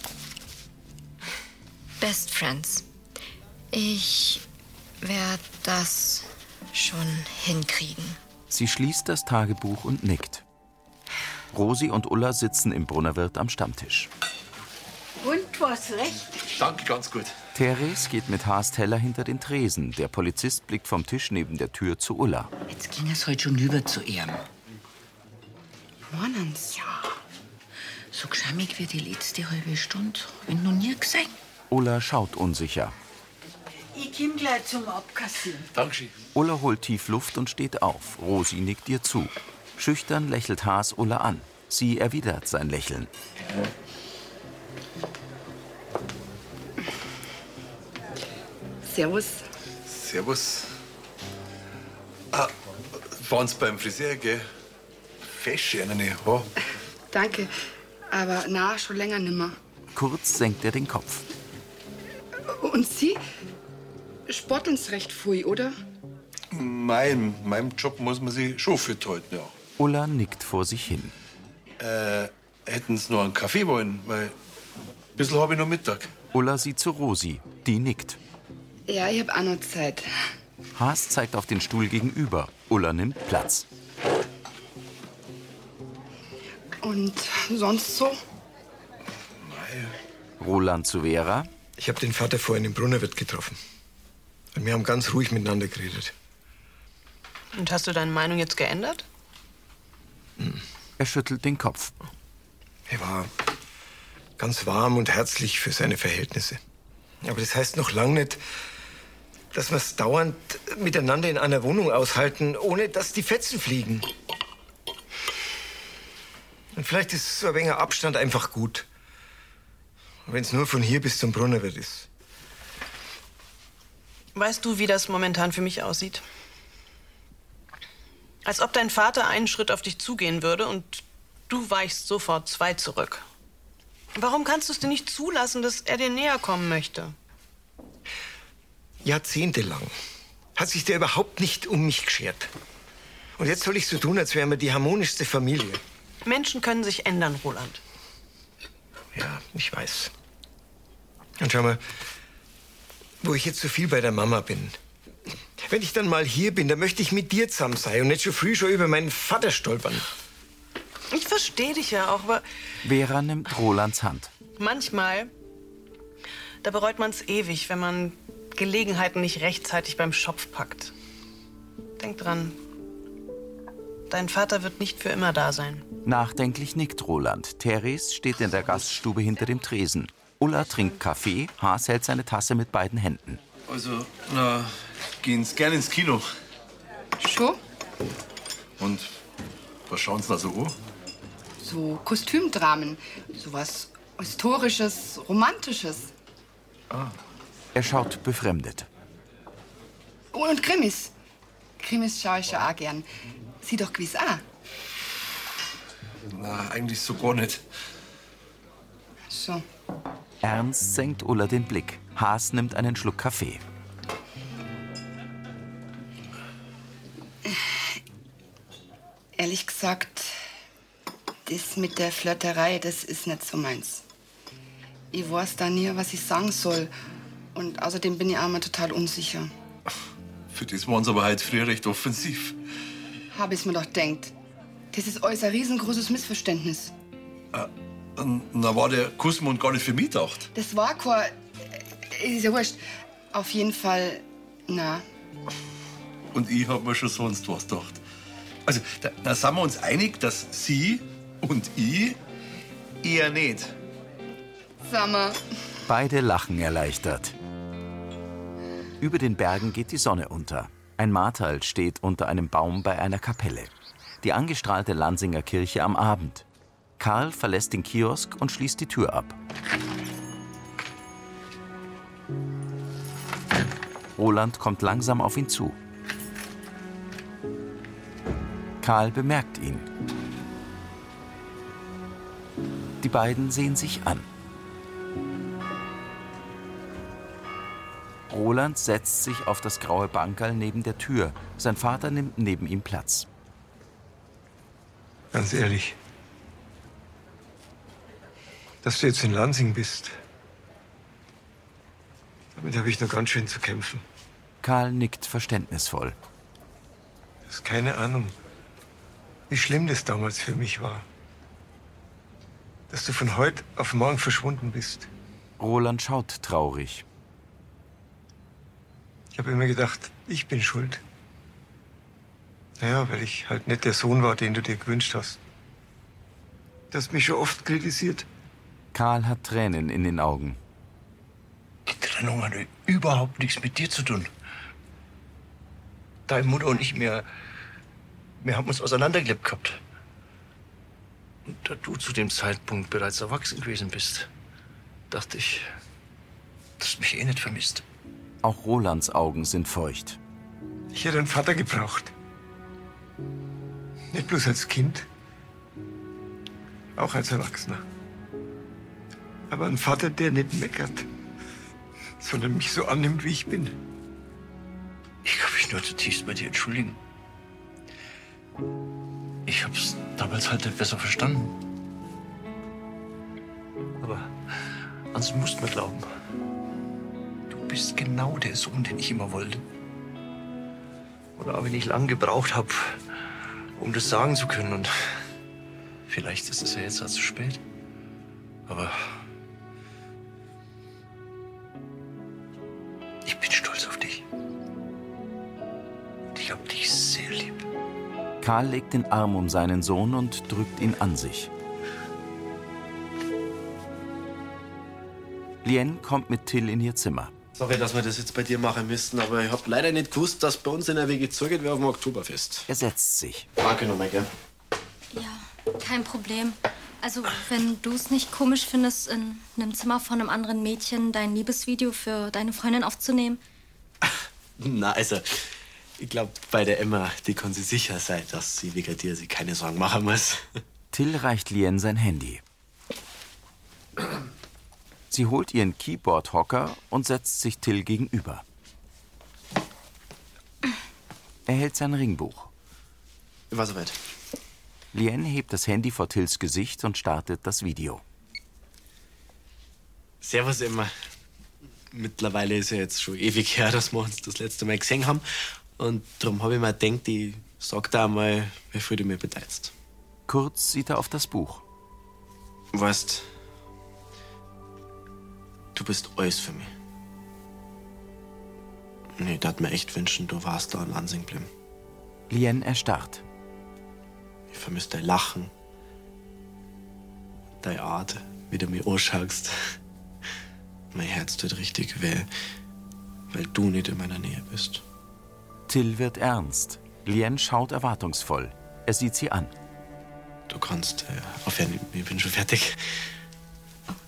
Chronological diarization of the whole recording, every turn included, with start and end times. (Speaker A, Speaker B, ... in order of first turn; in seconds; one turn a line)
Speaker A: 2.0-2.9
Speaker A: 3.7-4.4
Speaker A: 5.0-8.2
Speaker B: 8.5-10.4
Speaker B: 11.5-14.1
Speaker C: 16.4-17.3
Speaker B: 17.6-22.5
Speaker D: 22.7-24.4
Speaker E: 26.1-27.1
Speaker D: 28.1-31.3
Speaker B: 31.7-33.0
Speaker D: 34.0-35.6
Speaker C: 35.7-36.1
Speaker B: 36.4-43.1
Speaker E: 48.8-49.4
Speaker C: 49.9-50.7
Speaker C: 52.3-54.4
Speaker C: 55.3-56.5
Speaker E: 57.1-57.5
Speaker E: 58.1-59.6
Speaker B: 59.9-61.3
Speaker E: 62.5-63.2
Speaker E: 64.3-65.7
Speaker C: 66.5-69.5
Speaker B: 69.8-71.2
Speaker C: 71.8-74.3
Speaker C: 75.2-76.1
Speaker B: 76.3-78.2
Speaker E: 78.9-80.1
Speaker B: 80.8-83.7
Speaker E: 86.8-88.2
Speaker C: 89.4-89.9
Speaker B: 90.4-91.5
Speaker F: 91.8-93.6
Speaker F: 94.5-96.1
Speaker G: 97.5-99.0
Speaker B: 101.0-101.9
Speaker F: 102.9-103.3
Speaker F: 104.4-106.6
Speaker F: 107.2-108.4
Speaker F: 109.5-114.1
Speaker F: 116.7-118.9
Speaker F: 120.3-122.1
Speaker G: 124.3-126.2
Speaker G: 128.4-133.2
Speaker G: 134.2-137.2
Speaker F: 139.0-139.9
Speaker F: 140.6-142.5
Speaker F: 143.4-145.8
Speaker G: 146.2-147.8
Speaker F: 149.1-150.1
Speaker F: 151.4-151.8
Speaker F: 153.2-154.8
Speaker F: 155.6-160.1
Speaker G: 161.1-162.4
Speaker B: 162.8-164.3
Speaker G: 164.6-165.3
Speaker G: 166.6-170.9
Speaker G: 172.0-172.6
Speaker G: 174.1-175.8
Speaker B: 176.1-183.4
Speaker C: 183.7-186.3
Speaker E: 187.2-187.6
Speaker C: 188.8-189.1
Speaker C: 189.9-190.8
Speaker E: 191.6-196.1
Speaker B: 197.8-198.9
Speaker E: 200.3-201.1
Speaker E: 201.8-203.1
Speaker E: 203.6-204.4
Speaker C: 206.3-207.6
Speaker E: 209.3-209.6
Speaker B: 210.4-213.6
Speaker E: 217.5-217.8
Speaker E: 219.4-220.3
Speaker E: 221.5-224.0
Speaker E: 225.1-226.9
Speaker E: 227.6-229.5
Speaker C: 230.5-232.6
Speaker E: 233.3-234.3
Speaker E: 234.9-236.9
Speaker C: 237.5-240.5
Speaker E: 240.6-245.0
Speaker C: 246.3-248.0
Speaker C: 248.7-252.2
Speaker C: 253.0-253.7
Speaker E: 254.8-255.4
Speaker B: 255.9-257.4
Speaker B: 259.0-263.7
Speaker B: 264.2-266.4
Speaker B: 267.0-269.4
Speaker B: 274.2-275.8
Speaker B: 278.8-279.9
Speaker B: 283.0-284.3
Speaker B: 288.3-293.3
Speaker F: 295.3-296.0
Speaker F: 298.8-300.1
Speaker F: 302.6-304.0
Speaker B: 304.6-306.2
Speaker F: 307.5-308.3
Speaker F: 309.5-311.1
Speaker F: 312.9-315.1
Speaker B: 315.6-317.1
Speaker F: 319.3-321.0
Speaker F: 322.8-325.4
Speaker F: 326.9-328.3
Speaker B: 328.9-330.6
Speaker H: 331.9-334.3
Speaker H: 336.3-337.3
Speaker H: 338.4-339.8
Speaker H: 341.5-344.3
Speaker H: 345.1-345.7
Speaker H: 346.8-347.8
Speaker B: 348.4-350.2
Speaker F: 350.9-352.1
Speaker F: 354.1-355.1
Speaker F: 357.0-357.8
Speaker F: 359.5-361.1
Speaker F: 362.2-363.8
Speaker H: 365.2-367.0
Speaker H: 369.5-371.6
Speaker H: 374.0-374.3
Speaker H: 375.1-376.1
Speaker H: 377.5-379.6
Speaker H: 381.4-383.0
Speaker H: 383.8-384.9
Speaker H: 386.1-387.6
Speaker H: 388.7-389.0
Speaker H: 393.2-394.2
Speaker H: 396.3-397.6
Speaker B: 398.4-401.5
Speaker B: 405.6-407.3
Speaker I: 407.6-412.7
Speaker B: 412.7-413.5
Speaker I: 413.6-414.3
Speaker A: 415.1-423.4
Speaker I: 424.0-425.4
Speaker I: 426.0-430.4
Speaker B: 430.9-432.4
Speaker B: 435.1-438.4
Speaker B: 441.5-442.5
Speaker I: 443.5-444.0
Speaker B: 444.9-448.0
Speaker I: 450.2-450.9
Speaker I: 451.9-459.7
Speaker B: 460.3-461.6
Speaker I: 462.7-463.3
Speaker I: 465.8-466.7
Speaker I: 469.2-471.5
Speaker B: 472.3-473.2
Speaker I: 474.5-475.5
Speaker I: 477.6-479.8
Speaker I: 480.9-482.3
Speaker I: 483.3-484.8
Speaker B: 485.7-489.5
Speaker I: 490.5-492.9